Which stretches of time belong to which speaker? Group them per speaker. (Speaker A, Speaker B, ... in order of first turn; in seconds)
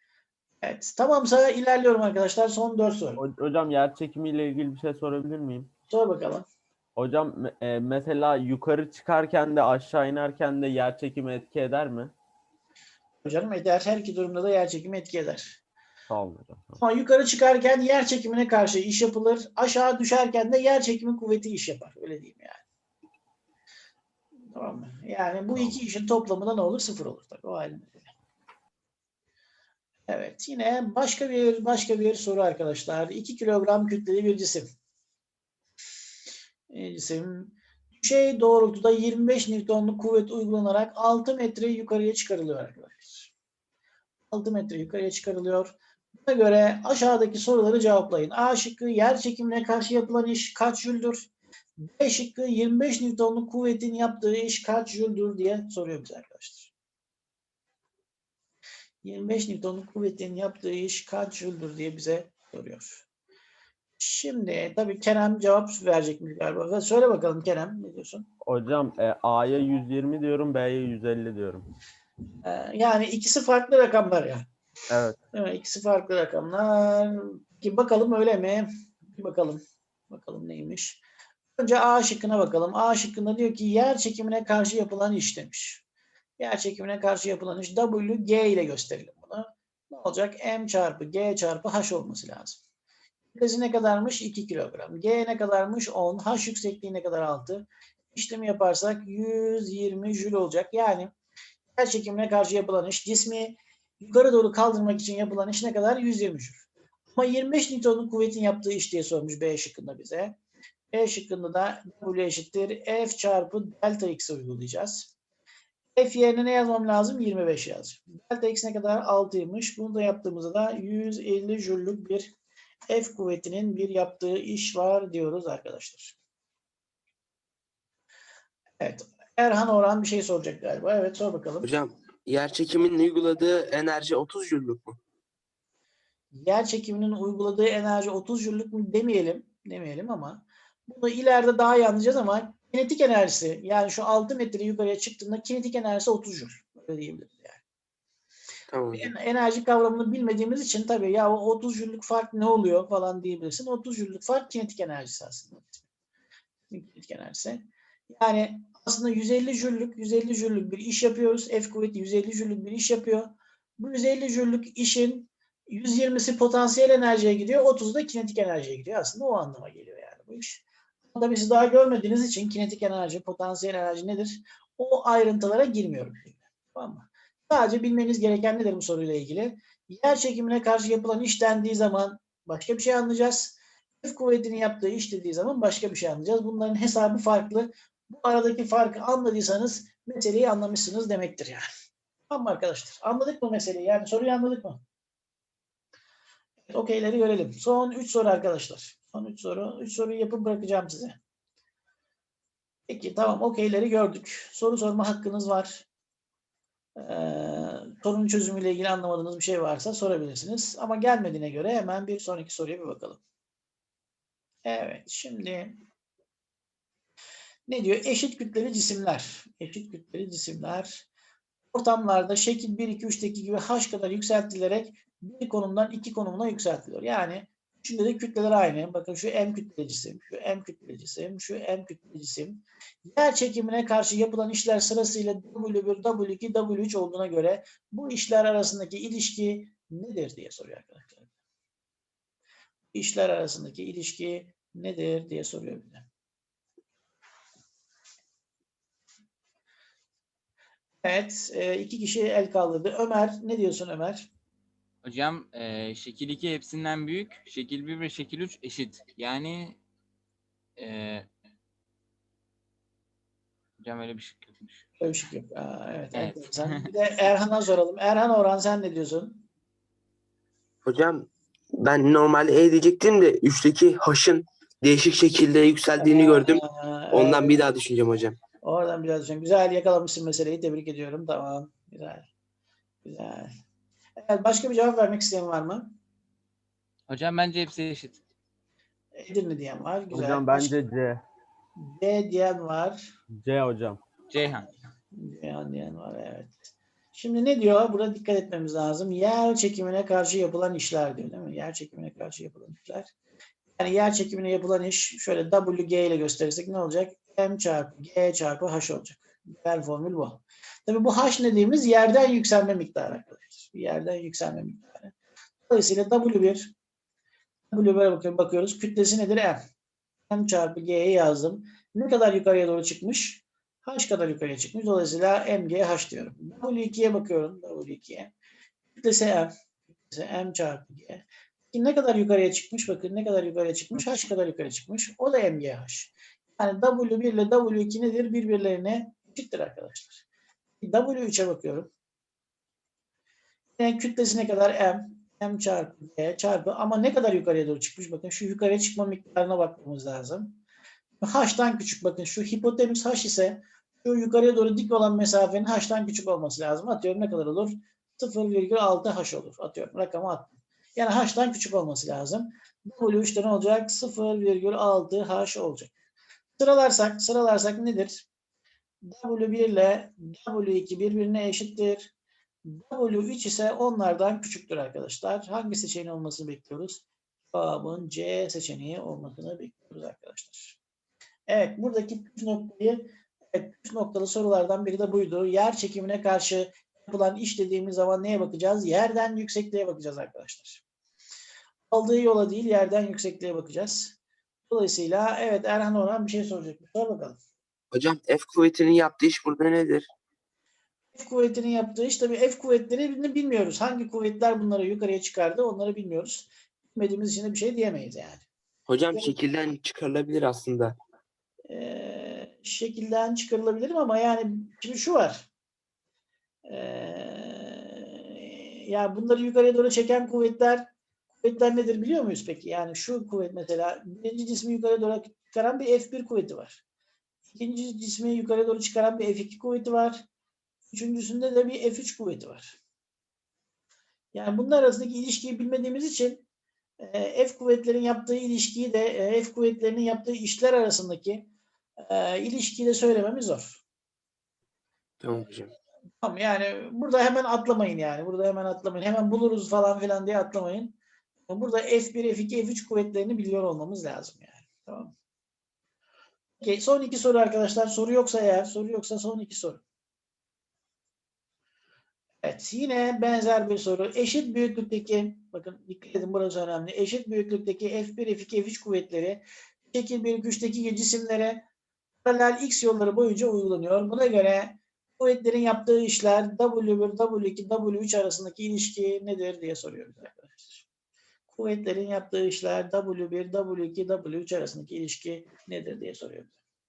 Speaker A: 0.6-3.2, 5.9-6.5, 13.2-15.6, 16.8-22.6, 24.5-28.1, 30.1-34.7, 36.7-43.3, 44.3-56.7, 59.0-63.0, 64.0-68.3, 72.4-74.5, 75.3-81.0, 81.6-85.8, 86.4-92.6, 93.3-101.1, 101.7-110.3, 110.9-115.1, 116.0-122.3, 122.9-126.2, 128.8-131.7, 136.3-147.6, 148.9-155.8, 156.7-191.7, 192.3-194.8, 196.7-201.2, 202.9-205.8, 206.9-213.2, 214.6-215.8, 217.7-221.1, 221.7-241.3, 242.9-246.1, 251.0-254.3, 265.0-269.4, 276.0-277.6, 278.6-282.3, 283.0-283.5, 284.2-285.9, 289.1-290.8, 291.8-293.1, 295.1-303.1, 303.8-315.1, 315.7-316.7, 317.7-319.6, 320.3-328.3, 328.9-329.5, 330.1-340.2, 340.8-341.9, 343.8-350.6, 351.2-365.9, 366.6-368.2, 369.0-372.1, 372.6-380.8, 381.5-390.8, 391.9-394.1, 394.7-397.4, 401.1-408.4, 411.7-415.5, 416.7-420.9, 421.4-426.8, 427.5-430.2, 430.9-432.8, 434.3-436.4, 437.0-441.5, 442.0-443.8, 446.2-451.0, 451.5-455.1, 456.6-459.8, 462.4-471.6, 472.2-480.8, 481.5-486.5
Speaker B: 3.1-5.7, 7.0-12.1, 16.1-16.8, 25.5-25.8, 68.4-71.7, 74.9-75.2, 290.1-291.2, 293.3-294.0
Speaker C: 131.6-135.0, 148.7-149.1, 270.8-278.4, 397.9-400.1, 408.9-410.9, 445.2-445.7
Speaker D: 255.0-259.8, 260.8-261.3, 263.8-264.9, 266.1-266.9, 287.1-288.2, 294.3-294.7